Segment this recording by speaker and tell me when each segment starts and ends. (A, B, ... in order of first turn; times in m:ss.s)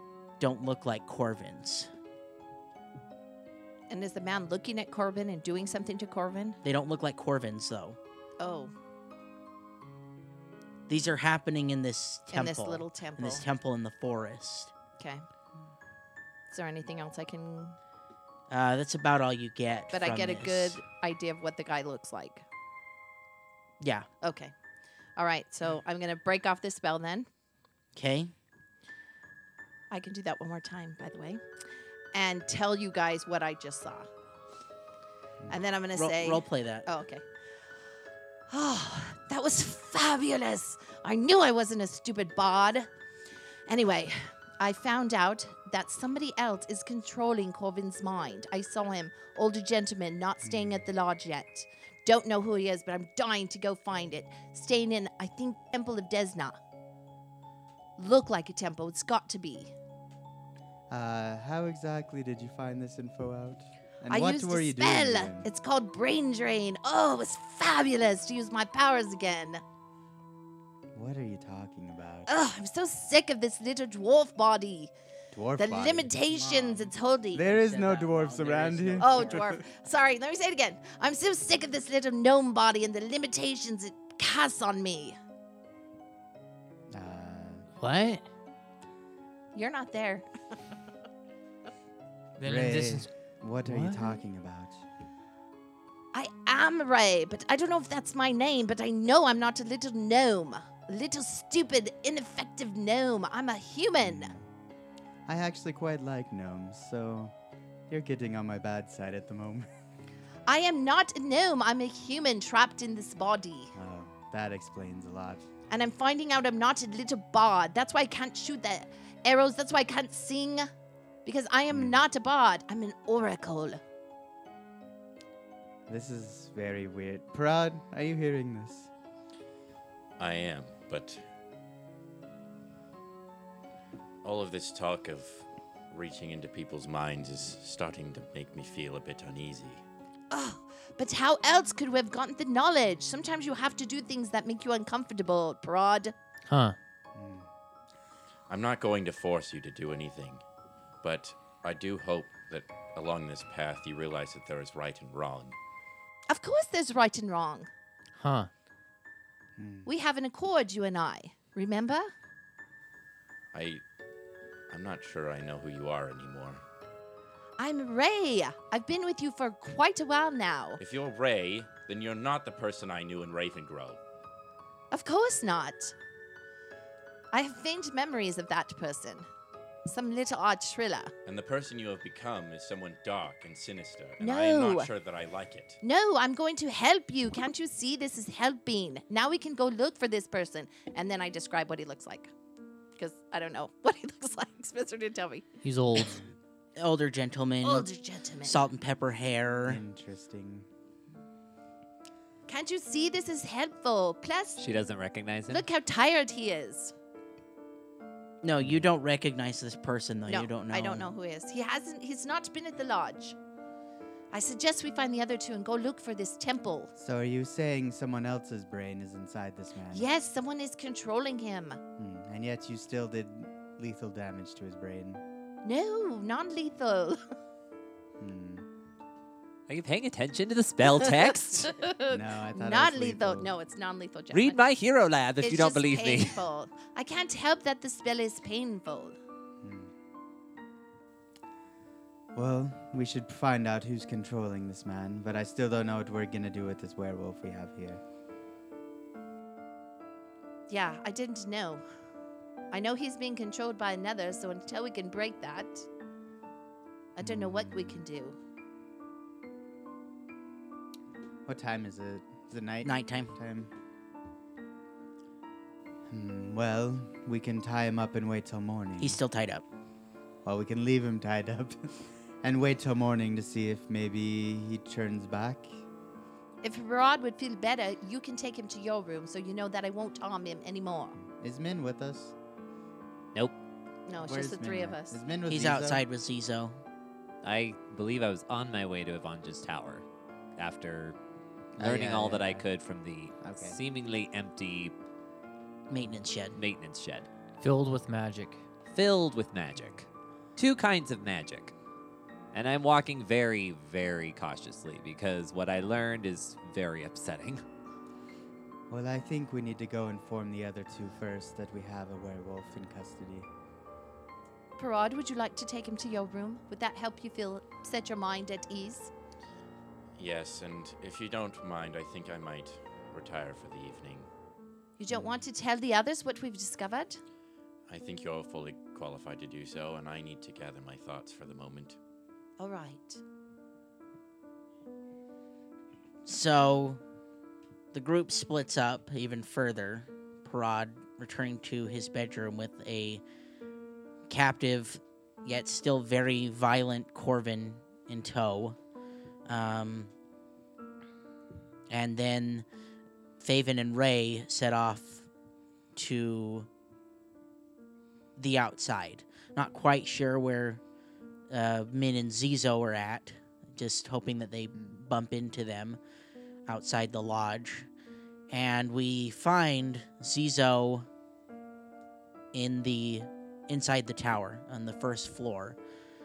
0:00.4-0:01.9 A
0:03.9-0:06.6 B
0:06.6-0:08.0 A
0:08.4-0:08.7 B
0:10.9-0:14.7 A
0:12.3-0:13.4 B
0:15.0-0:15.2 B
0:16.5-0:17.8 B
0:18.5-0:20.8 A
0:19.9-0:22.4 B
0:23.8-0:24.1 A
0:24.2-0:24.5 B
0:25.2-0:27.3 B
0:27.9-0:28.3 A
0:29.9-0:31.4 B
0:32.1-0:34.1 B
0:35.5-0:37.2 B
0:35.9-0:36.9 A
0:38.5-0:42.9 B
0:43.7-0:56.6 B
0:50.4-0:50.8 C
0:58.0-0:59.7 B
1:00.9-1:05.5 C
1:04.1-1:09.6 B
1:10.9-1:12.3 C
1:12.3-1:14.9 B
1:15.3-1:16.1 C
1:15.6-1:17.4 B
1:16.3-1:19.6 A
1:17.3-1:19.6 C
1:19.0-1:25.2 B
1:26.9-1:27.7 C
1:27.8-1:28.2 D
1:29.5-1:30.2 B
1:32.4-1:33.1 D
1:32.4-1:34.8 C
1:33.6-1:34.2 D
1:36.1-1:44.3 B
1:44.0-1:44.4 C
1:45.3-1:47.3 C
1:47.9-1:49.7 C
1:50.5-1:53.7 B
1:53.7-1:55.5 C
1:55.7-2:00.7 B
2:01.2-2:03.8 B
2:01.7-2:02.0 C
2:05.9-2:08.9 C
2:10.2-2:11.2 E
2:14.2-2:19.8 E
2:20.3-2:26.1 B
2:26.5-2:26.8 D
2:27.1-2:27.5 C
2:28.5-2:30.4 E
2:31.0-2:35.6 E
2:36.3-2:37.7 B
2:38.2-2:38.5 D
2:39.6-2:39.9 C
2:39.8-2:42.1 B
2:43.5-2:43.8 E
2:44.7-2:46.6 E
2:47.6-2:50.8 B
2:50.8-2:54.0 E
2:54.9-2:56.0 B
2:57.3-2:59.3 B
2:59.8-3:01.1 B
3:01.2-3:05.8 E
3:04.2-3:04.9 B
3:05.8-3:12.3 B
3:13.0-3:15.5 B
3:15.6-3:16.2 D
3:16.8-3:17.9 A
3:17.6-3:18.6 B
3:18.4-3:19.8 A
3:19.6-3:20.7 C
3:22.5-3:24.6 B
3:24.6-3:25.6 F
3:25.5-3:26.9 B
3:28.4-3:31.1 A
3:30.3-3:33.4 B
3:34.3-3:36.9 B
3:37.0-3:40.0 C
3:39.9-3:41.8 B
3:42.0-3:45.2 C
3:45.6-3:47.2 B
3:48.2-3:48.6 C
3:49.7-3:51.7 F
3:51.0-3:54.6 B
3:52.1-3:53.5 C
3:54.3-3:56.4 F
3:55.4-3:59.2 B
3:59.6-3:59.9 C
4:02.3-4:08.0 C
4:10.7-4:11.8 B
4:12.7-4:15.9 B
4:17.1-4:18.4 B
4:17.2-4:18.0 C
4:21.4-4:23.7 C
4:22.8-4:23.3 A
4:26.1-4:29.2 C
4:29.0-4:29.6 A
4:30.4-4:31.8 C
4:32.4-4:35.8 C
4:36.6-4:41.2 B
4:41.2-4:42.3 C
4:44.1-4:45.2 B
4:44.2-4:46.0 C
4:45.5-4:46.8 A
4:47.4-4:50.0 F
4:50.6-4:51.2 F
4:51.8-4:52.7 C
4:51.8-4:54.9 F
4:53.4-4:53.8 C
4:55.9-4:56.6 A
4:56.5-4:57.3 F
4:57.6-4:58.6 D
4:58.9-5:01.7 F
5:02.5-5:07.6 F
5:08.9-5:13.5 C
5:14.8-5:19.1 B
5:20.2-5:24.3 E
5:25.0-5:27.2 B
5:25.1-5:25.4 C
5:27.9-5:32.0 E
5:32.6-5:33.2 B
5:36.2-5:37.0 A
5:37.9-5:43.2 A
5:44.3-5:48.8 A
5:49.4-5:50.1 A
5:51.9-5:52.6 A
5:53.4-5:55.3 A
5:55.9-5:56.7 A
5:58.4-6:00.8 A
6:01.5-6:06.0 A
6:06.7-6:07.9 A
6:08.5-6:11.1 A
6:12.5-6:15.8 A